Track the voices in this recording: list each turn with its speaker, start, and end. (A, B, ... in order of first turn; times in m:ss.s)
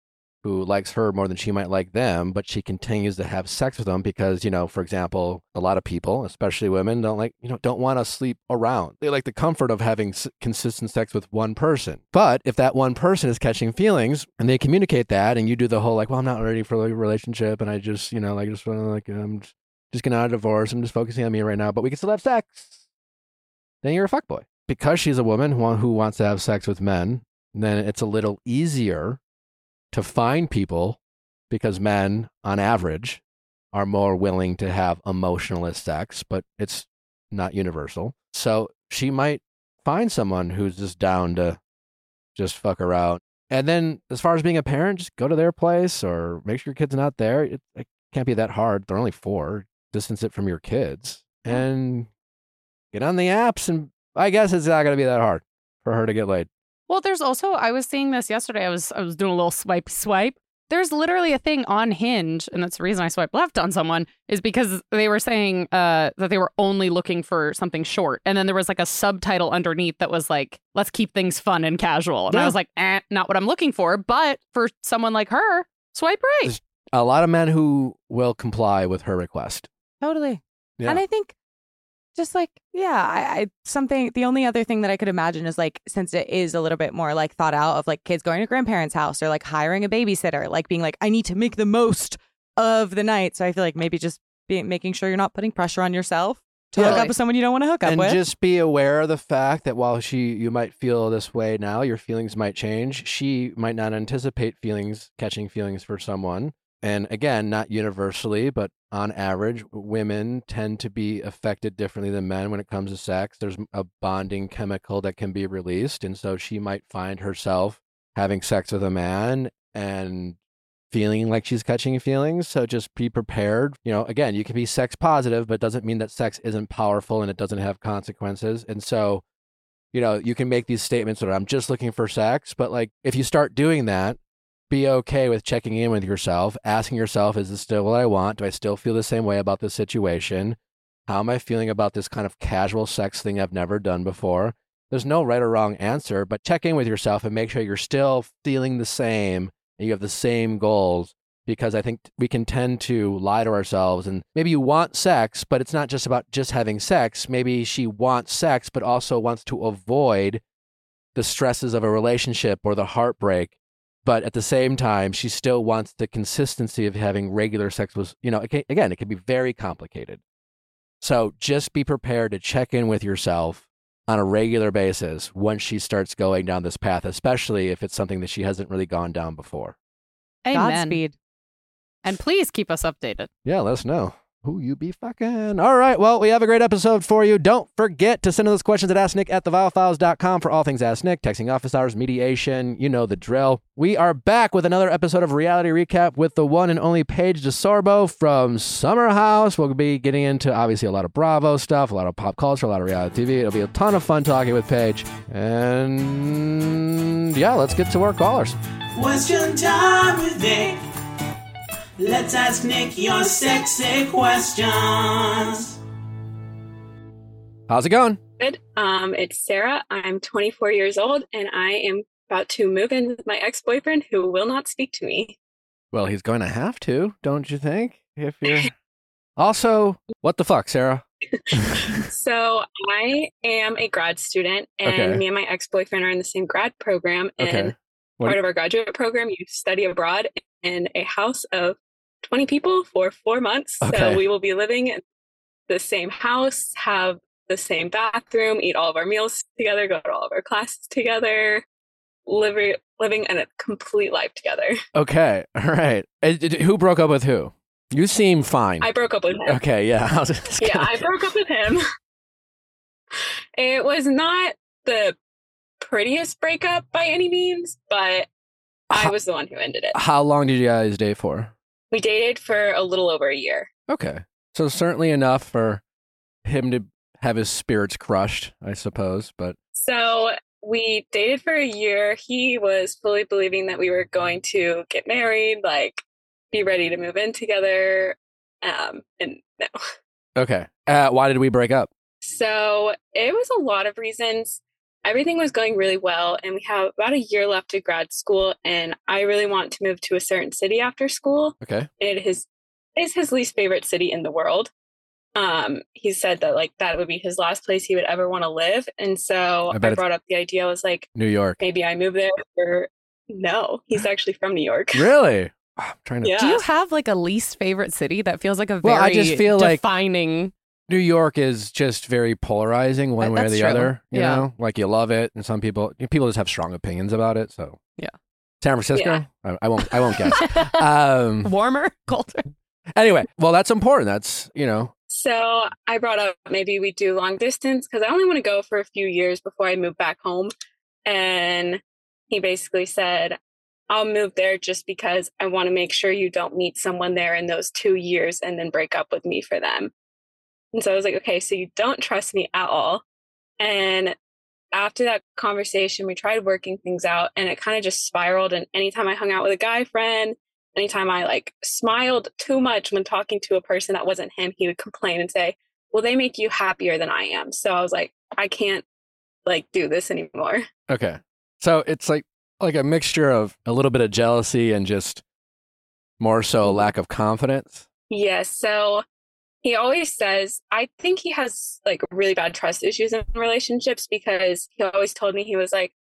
0:00.4-0:22.8 A
0:23.8-0:29.2 A
0:29.9-0:31.0 A
0:31.5-0:33.2 A
0:33.7-0:41.6 A
0:42.4-0:52.1 A
0:52.9-0:56.5 A
0:56.9-1:16.6 B
1:12.3-1:12.6 A
1:16.4-1:19.7 A
1:20.0-1:21.4 C
1:22.2-1:38.2 C
1:36.8-1:37.1 A
1:36.8-1:37.1 B
1:37.8-2:00.4 A
2:00.9-2:09.2 A
2:09.9-2:14.2 A
2:14.7-2:40.4 A
2:41.1-2:50.2 A
2:51.0-2:59.8 A
3:00.4-3:01.0 B
3:00.5-3:01.2 C
3:02.0-3:03.3 B
3:03.4-3:28.6 A
3:29.0-3:30.8 D
3:32.0-3:35.7 D
3:37.7-3:38.2 A
3:38.4-3:45.4 E
3:45.9-3:48.7 A
3:49.4-3:52.0 A
3:51.8-4:05.0 E
3:54.8-3:55.2 A
3:57.4-3:58.4 A
4:03.8-4:04.2 A
4:05.7-4:11.6 E
4:12.3-4:14.8 E
4:14.9-4:18.9 A
4:18.8-4:19.6 E
4:19.5-4:21.0 A
4:20.6-4:21.8 E
4:23.6-4:25.2 E
4:25.8-4:28.3 E
4:28.9-4:30.0 E
4:29.9-4:31.5 A
4:31.9-4:33.7 E
4:33.9-4:35.8 A
4:36.4-4:39.6 A
4:39.8-4:49.8 E
4:50.4-4:51.9 A
4:52.2-5:04.7 E
5:01.6-5:01.9 A
5:05.3-5:11.1 E
5:09.7-5:10.0 A
5:11.2-5:11.6 A
5:11.6-5:15.1 E
5:14.9-5:16.4 A
5:16.2-5:16.6 E
5:16.4-5:20.5 B
5:18.8-5:19.8 A
5:20.9-5:27.8 A
5:23.2-5:24.5 B
5:28.6-5:31.5 A
5:29.0-5:29.2 E
5:30.3-5:30.8 B
5:31.4-5:32.5 B
5:33.0-5:34.9 A
5:35.1-5:40.5 E
5:41.0-5:43.4 E
5:43.9-5:49.9 E
5:50.7-5:53.0 E
5:53.6-5:54.1 E
5:54.7-6:08.8 E
6:09.5-6:10.6 E
6:10.9-6:15.2 A
6:16.2-6:17.9 A
6:18.1-6:19.0 E
6:19.6-6:25.9 E